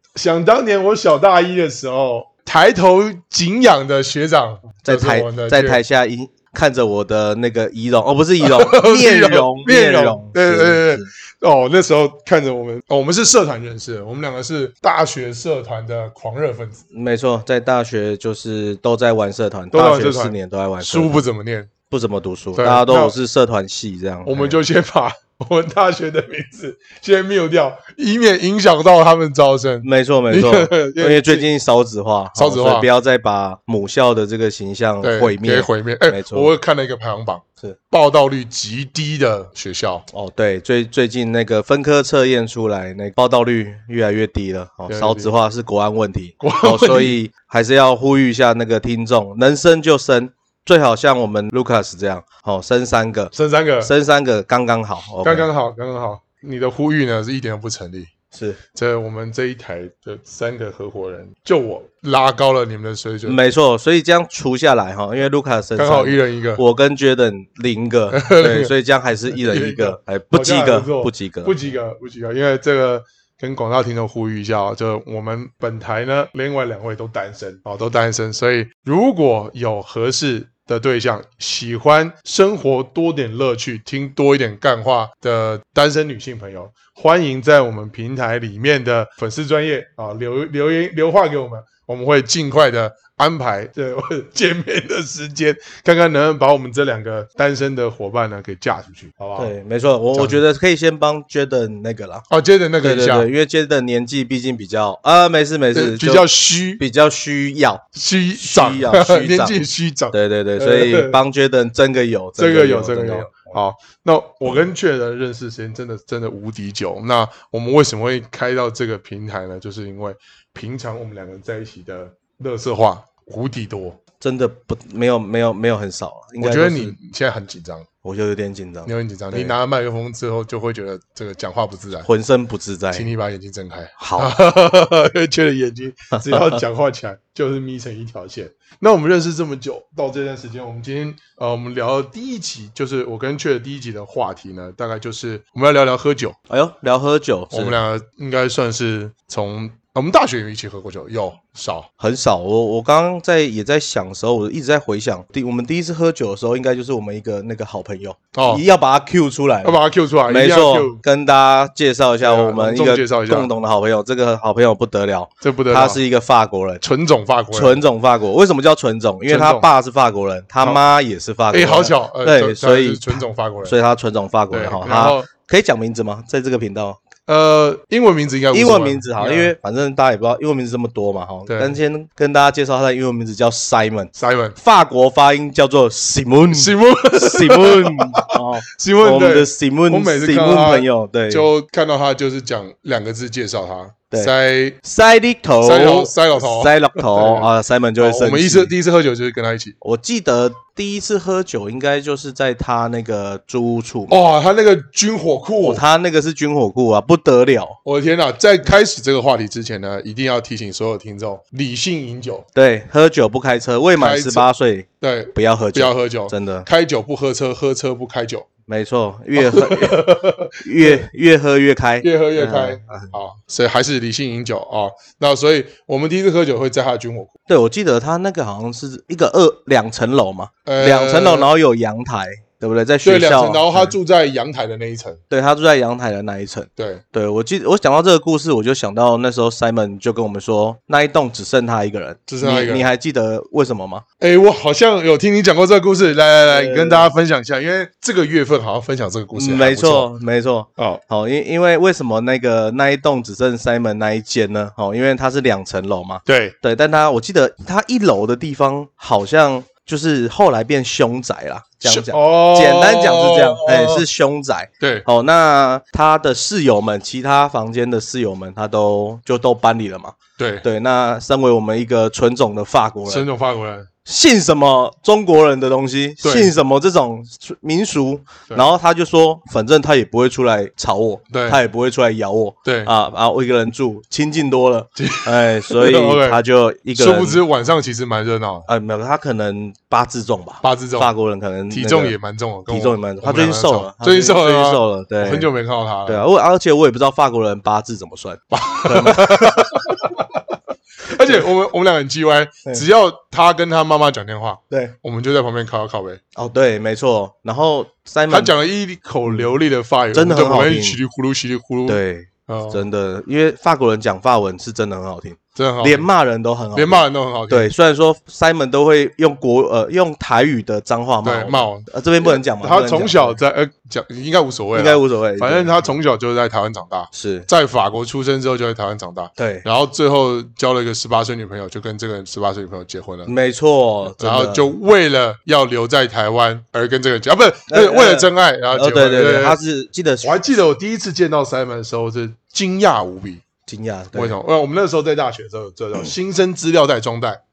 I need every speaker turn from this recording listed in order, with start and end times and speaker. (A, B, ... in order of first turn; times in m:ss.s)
0:00.1-0:05.8 A
0:04.8-0:11.1 B
0:08.4-0:16.8 A
0:16.9-0:21.3 B
0:19.7-0:21.7 A
0:21.9-0:24.6 B
0:22.6-0:23.1 A
0:24.2-0:31.4 A
0:29.8-0:36.5 B
0:32.3-0:32.9 A
0:35.0-0:40.0 A
0:40.1-0:55.5 B
0:44.9-0:45.3 A
0:46.4-0:47.2 A
0:53.3-0:53.9 A
0:55.2-0:58.1 A
0:58.3-0:58.6 B
0:58.8-1:03.4 A
1:03.2-1:11.6 B
1:05.8-1:06.6 A
1:08.1-1:08.7 A
1:09.3-1:39.5 A
1:39.4-1:42.3 B
1:40.1-1:40.4 A
1:42.3-1:43.3 A
1:42.8-1:47.8 B
1:45.7-1:46.8 A
1:47.9-1:51.2 A
1:48.4-1:53.6 B
1:52.4-2:04.0 A
2:04.2-2:07.0 B
2:06.4-2:07.9 A
2:08.0-2:09.6 B
2:08.9-2:12.1 A
2:12.0-2:13.1 B
2:12.9-2:26.4 A
2:14.0-2:14.4 B
2:26.5-2:27.8 B
2:27.5-2:31.9 A
2:32.0-2:46.8 B
2:38.3-2:38.6 A
2:39.6-2:41.0 A
2:42.2-2:43.5 A
2:45.4-2:46.0 A
2:46.8-2:47.8 A
2:47.5-2:57.0 B
2:49.2-2:49.7 A
2:51.5-2:53.8 A
2:54.5-2:55.3 A
2:57.3-2:59.5 A
2:58.5-3:11.5 B
3:01.5-3:01.8 A
3:04.2-3:04.6 A
3:06.5-3:14.8 A
3:14.8-3:18.7 B
3:15.6-3:17.4 A
3:18.0-3:19.8 A
3:19.8-3:24.2 B
3:24.1-3:25.8 A
3:25.6-3:27.8 B
3:27.8-3:32.4 A
3:32.5-3:36.7 B
3:34.0-3:34.5 A
3:35.0-3:38.4 A
3:38.7-3:40.0 B
3:39.3-3:41.0 A
3:40.6-3:43.1 B
3:42.0-3:47.3 A
3:47.5-3:54.0 B
3:50.6-3:51.5 A
3:53.0-3:55.2 A
3:55.3-4:04.0 B
3:56.8-3:57.0 A
4:02.3-4:02.9 A
4:04.2-4:10.1 A
4:06.4-4:07.1 B
4:09.3-4:33.3 B
4:10.8-4:11.0 A
4:16.2-4:16.5 A
4:21.8-4:24.1 A
4:24.8-4:25.1 A
4:30.4-4:30.6 A
4:33.1-4:33.9 A
4:34.0-4:47.4 B
4:36.2-4:36.5 A
4:41.3-4:41.6 A
4:42.6-4:42.9 A
4:45.0-4:46.4 A
4:46.9-4:48.7 A
4:48.7-4:52.1 B
4:50.6-4:51.1 A
4:51.7-4:56.2 A
4:52.7-4:55.5 B
4:56.1-4:59.9 B
4:58.5-5:00.4 A
5:01.0-5:06.2 A
5:06.4-5:08.5 B
5:08.3-5:12.8 A
5:10.1-5:11.0 B
5:11.9-5:23.4 B
5:15.5-5:16.1 A
5:16.7-5:17.7 A
5:21.2-5:33.3 A
5:24.7-5:25.9 B
5:27.1-5:27.5 B
5:29.4-5:29.6 B
5:33.2-5:34.7 B
5:34.2-5:39.6 A
5:37.7-5:40.4 B
5:40.2-5:43.4 A
5:43.6-5:44.4 B
5:44.1-5:47.4 A